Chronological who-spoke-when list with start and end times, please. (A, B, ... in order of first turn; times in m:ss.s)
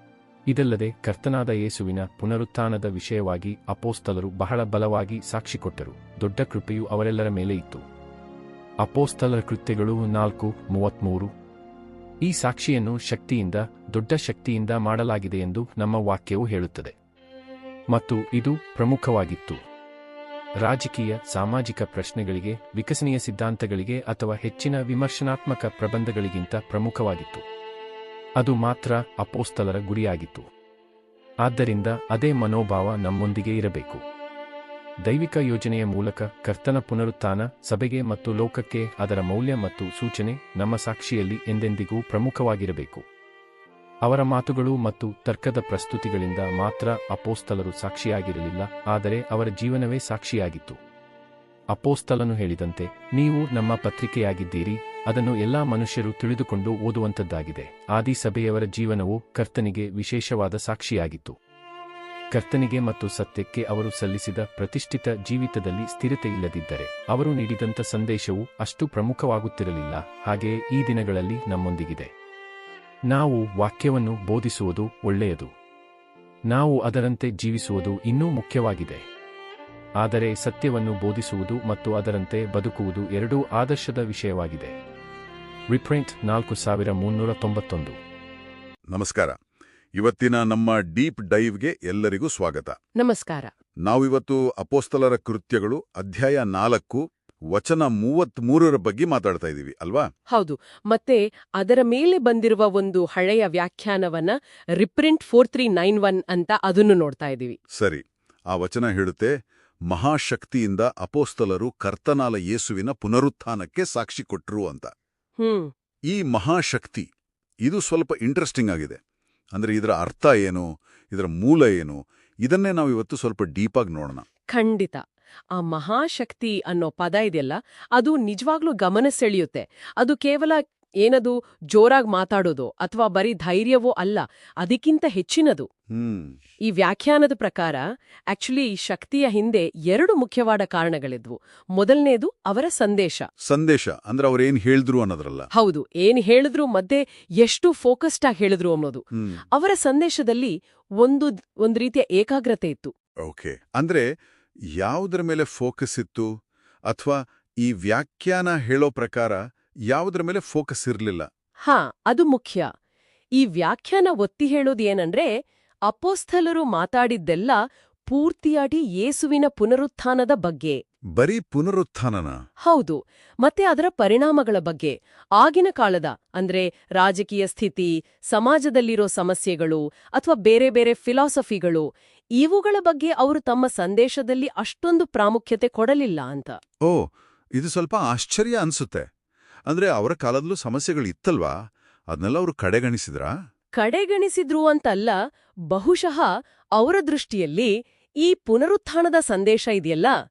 0:00.5-0:07.8 A
0:08.8-0:11.3 A
0:12.2-0:16.9 A
0:17.9-0:19.6 A
0:20.6-0:27.4 A
0:28.4-0:30.4 A
0:31.4-0:34.0 A
0:35.0-0:43.0 A
0:44.0-0:50.8 A
0:51.7-1:01.3 A
1:02.3-1:12.1 A
1:13.1-1:15.5 A
1:16.5-1:19.0 A
1:20.0-1:24.7 A
1:25.7-1:28.0 A
1:28.9-1:29.3 B
1:30.0-1:32.7 B
1:33.0-1:33.5 C
1:33.8-1:40.1 B
1:40.3-1:47.6 C
1:47.7-1:49.3 B
1:49.9-1:54.9 B
1:55.4-1:55.7 C
1:56.1-1:57.1 B
1:57.6-1:59.0 B
1:59.5-2:04.2 B
2:04.5-2:05.0 C
2:05.6-2:15.7 C
2:15.9-2:16.3 B
2:16.7-2:23.2 C
2:23.4-2:25.5 B
2:25.5-2:29.0 C
2:29.5-2:32.9 C
2:33.2-2:34.1 B
2:34.8-2:36.3 B
2:36.9-2:41.3 B
2:41.6-2:42.7 C
2:43.4-2:45.3 C
2:45.9-2:50.8 C
2:51.2-2:52.4 B
2:52.7-3:01.8 C
3:02.4-3:06.6 C
3:06.8-3:09.1 B
3:09.7-3:11.5 B
3:12.1-3:13.3 B
3:13.8-3:15.1 C
3:15.7-3:17.7 C
3:18.2-3:20.1 C